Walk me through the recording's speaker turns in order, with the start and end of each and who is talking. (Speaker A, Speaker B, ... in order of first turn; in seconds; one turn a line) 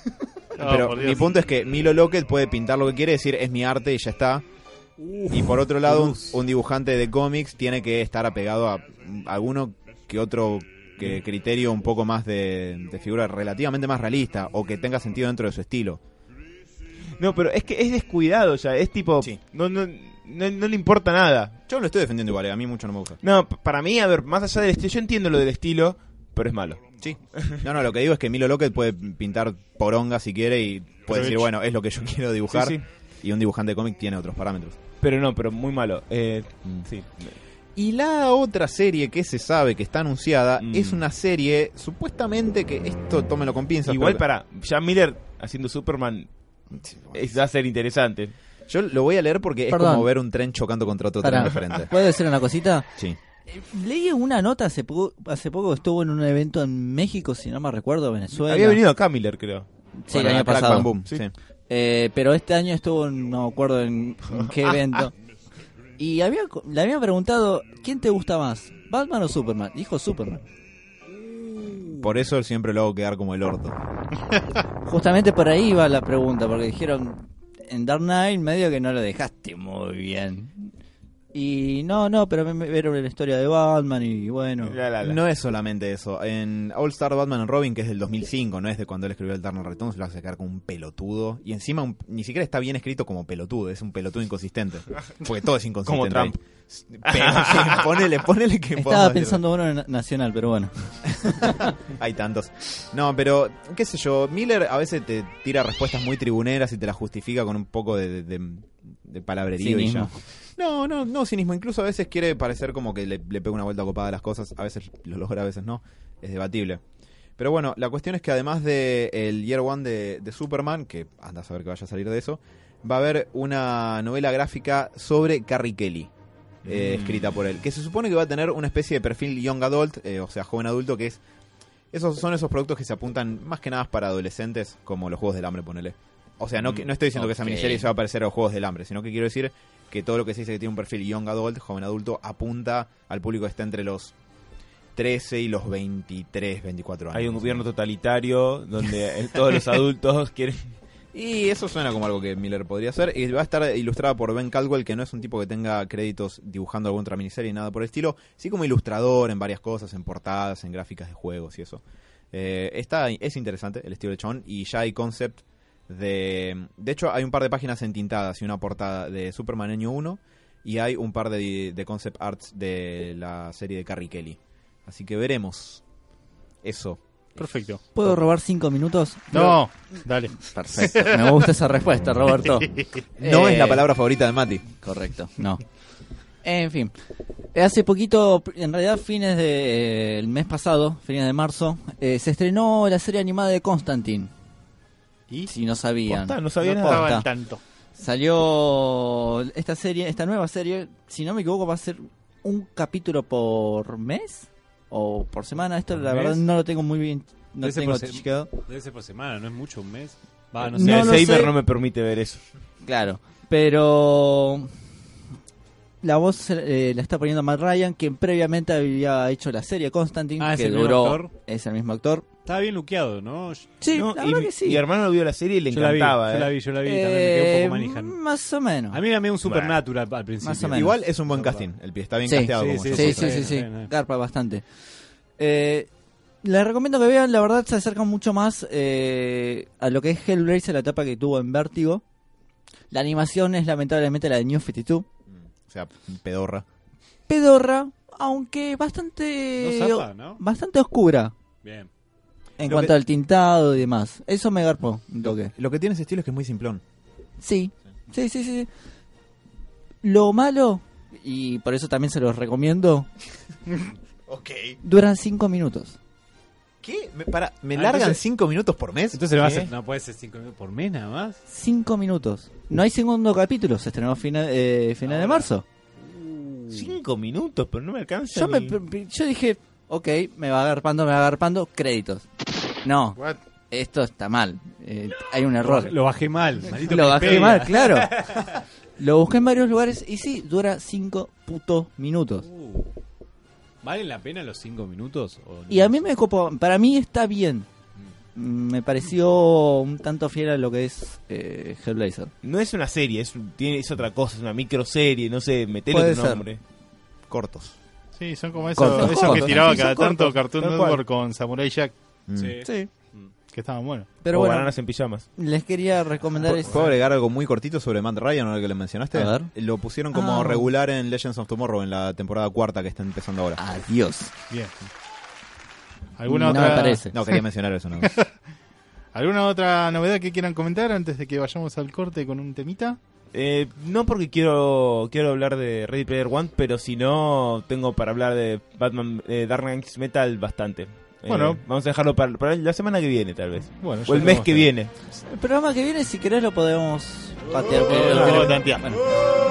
Speaker A: 0.6-1.3
Speaker B: 0.6-4.4
Speaker C: 5.0-6.3
Speaker B: 5.3-16.0
Speaker D: 17.2-21.5
Speaker B: 21.7-23.2
Speaker D: 23.2-26.8
Speaker B: 27.0-34.8
Speaker D: 27.3-27.6
Speaker A: 31.1-31.4
Speaker D: 32.5-32.8
Speaker D: 35.0-37.3
Speaker B: 37.8-44.2
Speaker D: 40.6-41.0
Speaker D: 43.8-46.3
Speaker B: 46.7-47.4
Speaker D: 47.1-48.3
Speaker B: 48.7-51.9
Speaker E: 49.7-50.1
Speaker E: 51.2-52.9
Speaker D: 51.5-51.8
Speaker E: 53.5-58.8
Speaker D: 58.5-59.7
Speaker E: 60.0-61.0
Speaker B: 60.1-61.3
Speaker E: 61.7-65.1
Speaker E: 66.0-70.4
Speaker B: 72.0-73.8
Speaker E: 74.9-80.7
Speaker E: 81.3-84.8
Speaker D: 84.6-85.2
Speaker B: 85.0-99.4
Speaker D: 95.9-96.3
Speaker D: 97.0-98.0
Speaker E: 98.8-101.7
Speaker B: 101.3-116.8
Speaker E: 109.6-110.1
Speaker B: 117.4-126.1
Speaker B: 126.6-131.2
Speaker D: 126.7-127.4
Speaker B: 131.9-144.1
Speaker D: 136.6-136.8
Speaker E: 137.1-137.9
Speaker B: 144.9-147.6
Speaker D: 147.1-150.7
Speaker B: 151.1-175.8
Speaker B: 176.6-177.5
Speaker A: 177.4-177.8
Speaker E: 177.9-179.6
Speaker A: 179.3-181.5
Speaker E: 180.4-183.9
Speaker B: 183.2-184.7
Speaker E: 184.8-185.6
Speaker E: 186.4-186.9
Speaker E: 187.5-194.3
Speaker E: 195.5-197.3
Speaker D: 196.1-197.1
Speaker A: 196.6-197.6
Speaker E: 198.0-208.5
Speaker C: 205.9-206.4
Speaker C: 207.6-211.5
Speaker E: 210.7-211.5
Speaker D: 210.7-212.4
Speaker E: 212.8-214.7
Speaker E: 216.0-222.2
Speaker C: 220.4-221.3
Speaker C: 222.4-223.7
Speaker E: 223.8-224.8
Speaker D: 223.9-226.5
Speaker C: 225.7-228.2
Speaker E: 226.8-229.0
Speaker C: 228.9-231.6
Speaker D: 229.4-229.8
Speaker E: 230.4-230.9
Speaker B: 230.7-233.4
Speaker E: 232.2-234.6
Speaker C: 232.5-233.9
Speaker E: 235.4-235.9
Speaker E: 236.4-242.0
Speaker E: 242.9-245.1
Speaker B: 245.3-246.6
Speaker E: 247.3-251.3
Speaker C: 249.6-250.4
Speaker C: 251.6-251.9
Speaker E: 252.6-255.5
Speaker B: 252.6-252.9
Speaker B: 255.2-256.8
Speaker E: 257.4-258.7
Speaker E: 260.0-263.1
Speaker B: 264.3-264.8
Speaker E: 264.8-266.0
Speaker B: 266.8-269.2
Speaker D: 267.7-268.2
Speaker C: 269.1-271.4
Speaker D: 269.3-269.7
Speaker E: 271.5-275.6
Speaker C: 275.0-275.5
Speaker C: 276.1-276.9
Speaker D: 276.7-278.7
Speaker E: 278.3-282.2
Speaker E: 282.8-283.2
Speaker E: 283.7-285.9
Speaker C: 285.6-288.6
Speaker E: 286.7-292.5
Speaker C: 292.4-292.9
Speaker C: 293.8-296.0
Speaker E: 295.7-297.7
Speaker E: 298.4-302.3
Speaker D: 302.4-306.6
Speaker E: 305.9-306.4
Speaker B: 307.3-307.8
Speaker A: 308.2-311.9
Speaker E: 308.8-310.4
Speaker B: 309.0-309.6
Speaker D: 310.6-311.0
Speaker B: 312.3-312.6
Speaker C: 312.3-313.3
Speaker E: 312.6-312.9
Speaker A: 313.5-314.1
Speaker E: 314.2-314.7
Speaker D: 314.3-315.2
Speaker E: 315.4-316.8
Speaker B: 316.5-323.6
Speaker E: 319.1-319.5
Speaker E: 320.1-320.7
Speaker E: 323.6-324.3
Speaker A: 326.2-327.0
Speaker E: 326.3-327.1
Speaker B: 326.5-328.1
Speaker A: 328.0-328.3
Speaker A: 329.1-333.0
Speaker D: 333.3-344.9
Speaker A: 341.3-341.6
Speaker A: 343.8-344.7
Speaker E: 345.3-349.0
Speaker A: 347.9-348.8
Speaker C: 347.9-348.3